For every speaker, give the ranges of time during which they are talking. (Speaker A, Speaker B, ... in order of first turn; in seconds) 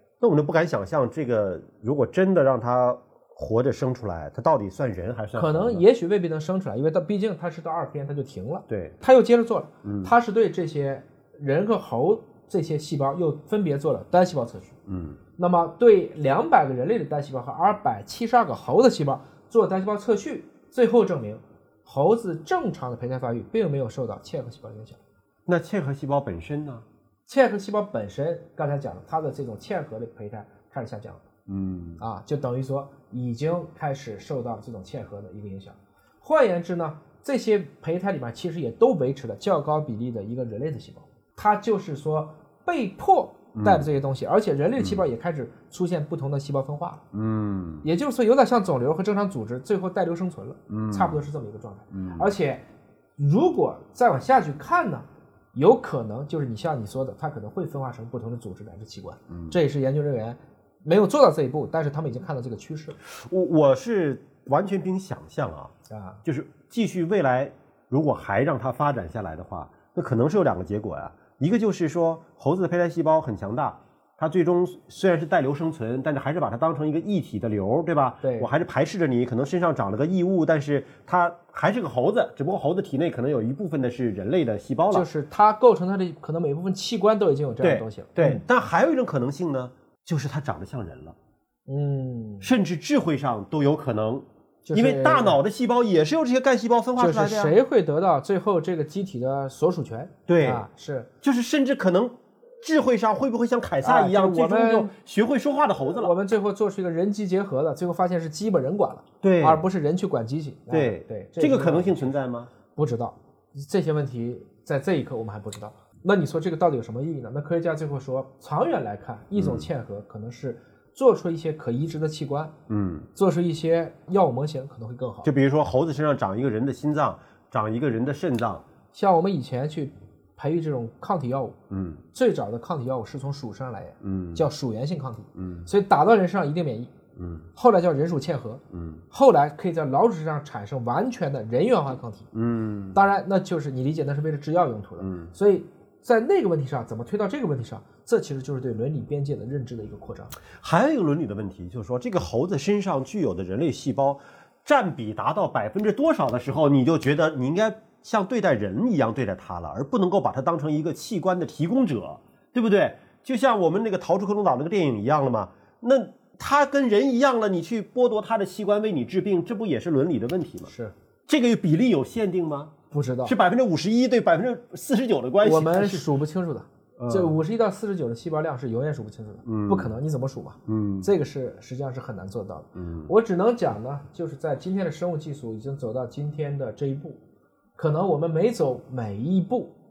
Speaker A: 0.2-5.8, 8.7-9.0, 9.8-10.1, 14.9-15.2, 25.5-26.9, 31.5-32.0, 43.5-43.9, 44.8-45.0, 47.1-47.9, 50.7-51.2, 51.9-52.3, 59.3-59.5, 63.1-65.7, 66.2-85.1, 87.6-91.2, 92.4-97.6, 100.3-100.7, 101.2-106.1, 109.2-109.6, 110.7-112.5, 119.4-119.7, 122.7-123.1, 125.2-128.6, 131.7-132.0, 134.0-134.4, 135.4-135.6, 137.2-137.5, 138.7-139.0, 142.3-143.0, 145.0-145.3, 150.6-170.7, 171.3-172.7, 173.2-176.1, 177.0-177.3, 179.5-179.9, 180.7-181.1, 182.8-183.1
Speaker B: 5.3-14.7, 15.4-25.0, 27.3-31.2, 32.0-47.0, 47.8-52.6, 53.2-63.0, 65.9-66.2, 78.2-78.5, 84.9-88.4, 91.7-92.5, 94.6-95.4, 97.0-101.1, 103.8-104.9, 106.0-112.1, 112.7-122.5, 123.1-125.3, 128.9-131.6, 132.1-136.9, 137.6-142.3, 142.9-150.4, 170.7-170.9, 172.9-173.4, 175.4-187.2, 187.8-189.7